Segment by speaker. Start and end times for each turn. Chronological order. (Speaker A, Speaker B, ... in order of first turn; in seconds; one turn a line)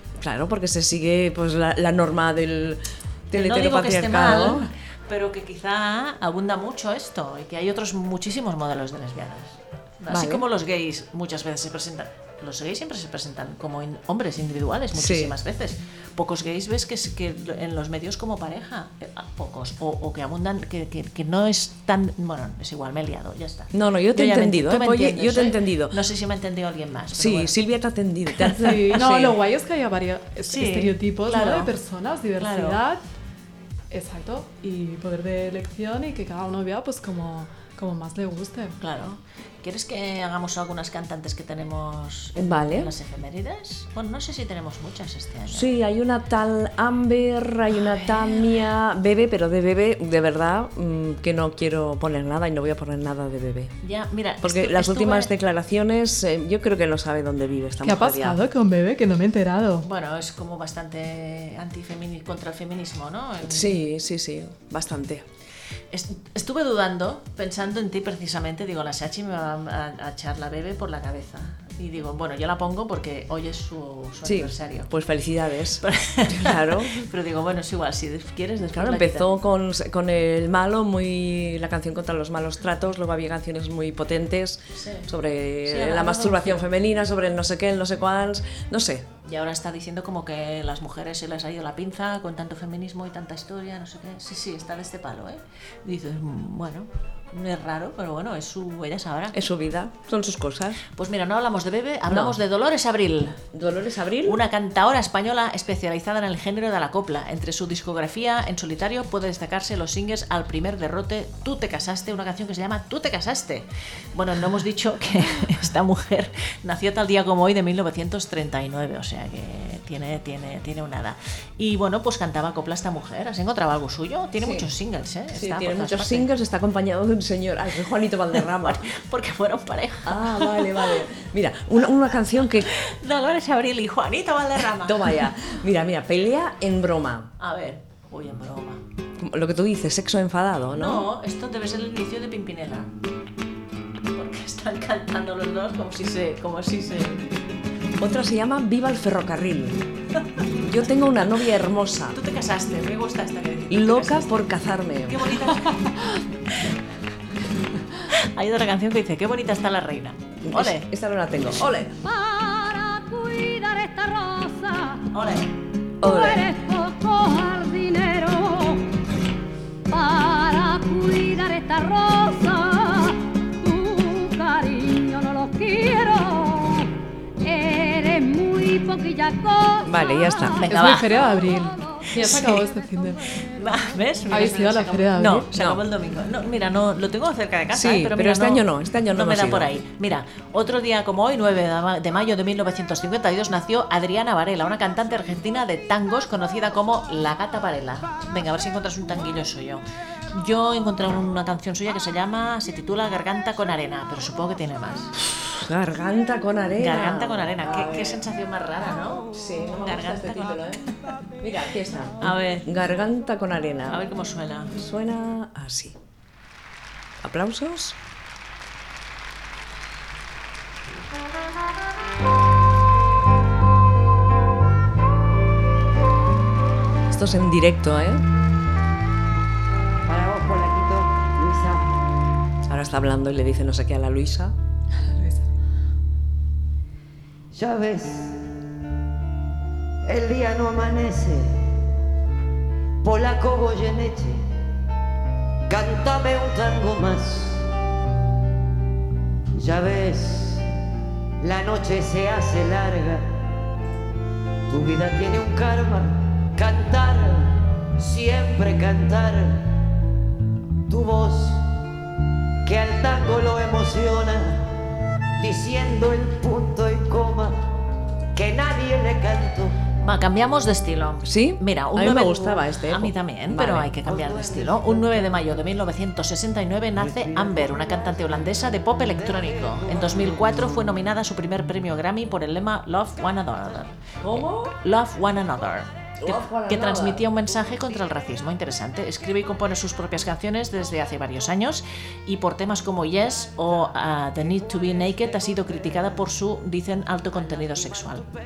Speaker A: 0.2-4.7
Speaker B: 3.3-27.6
Speaker A: 10.1-10.5
Speaker A: 14.9-15.4
Speaker A: 23.7-26.0
Speaker A: 27.1-29.4
Speaker B: 28.4-28.7
Speaker C: 28.6-33.0
Speaker B: 30.4-31.7
Speaker B: 32.4-32.8
Speaker C: 33.9-38.8
Speaker B: 38.8-45.7
Speaker A: 42.4-42.9
Speaker A: 45.5-53.7
Speaker B: 47.7-48.6
Speaker B: 53.8-55.3
Speaker A: 54.4-58.4
Speaker C: 57.8-59.9
Speaker B: 59.8-63.8
Speaker A: 63.4-65.2
Speaker B: 65.9-74.9
Speaker A: 74.2-77.1
Speaker B: 75.8-79.3
Speaker A: 78.7-89.1
Speaker B: 84.8-85.1
Speaker B: 85.7-86.7
Speaker B: 89.3-99.3
Speaker A: 99.3-100.8
Speaker B: 101.0-103.4
Speaker A: 102.1-102.4
Speaker A: 103.5-104.4
Speaker B: 104.2-126.3
Speaker A: 124.4-124.7
Speaker A: 125.3-128.9
Speaker B: 128.4-131.0
Speaker A: 130.1-132.7
Speaker B: 132.7-135.2
Speaker A: 134.8-137.3
Speaker B: 137.4-138.8
Speaker A: 139.2-141.1
Speaker B: 140.8-142.9
Speaker B: 144.1-147.3
Speaker A: 148.0-149.8
Speaker A: 150.6-152.2
Speaker B: 152.1-154.4
Speaker A: 153.7-155.4
Speaker B: 155.1-155.9
Speaker B: 158.1-160.9
Speaker A: 160.4-161.9
Speaker D: 162.0-165.1
Speaker B: 165.1-165.5
Speaker A: 166.0-166.5
Speaker D: 166.0-168.8
Speaker D: 169.9-182.0
Speaker A: 179.8-180.6
Speaker B: 180.6-181.2
Speaker C: 180.7-183.3
Speaker B: 182.2-182.6
Speaker B: 183.5-199.8
Speaker C: 184.3-185.5
Speaker A: 185.5-185.8
Speaker A: 187.7-189.7
Speaker B: 200.3-205.1
Speaker A: 205.5-208.2
Speaker B: 206.8-210.6
Speaker A: 209.3-210.8
Speaker A: 211.4-214.0
Speaker B: 212.2-212.7
Speaker B: 213.9-214.8
Speaker A: 214.7-216.0
Speaker A: 217.2-218.0
Speaker A: 227.1-228.2
Speaker E: 230.1-232.0
Speaker A: 232.7-234.5
Speaker C: 235.0-235.5
Speaker E: 237.5-238.5
Speaker E: 240.1-241.7
Speaker E: 243.0-244.4
Speaker E: 245.7-247.7
Speaker E: 249.6-250.7
Speaker E: 251.4-253.3
Speaker E: 254.7-259.8
Speaker E: 260.9-261.6
Speaker E: 262.6-264.8
Speaker E: 265.4-267.7
Speaker E: 268.4-269.8
Speaker B: 270.0-298.3
Speaker A: 271.3-274.0
Speaker E: 274.0-275.4
Speaker A: 277.0-277.7
Speaker E: 279.2-280.4
Speaker A: 284.2-284.8
Speaker A: 286.2-287.3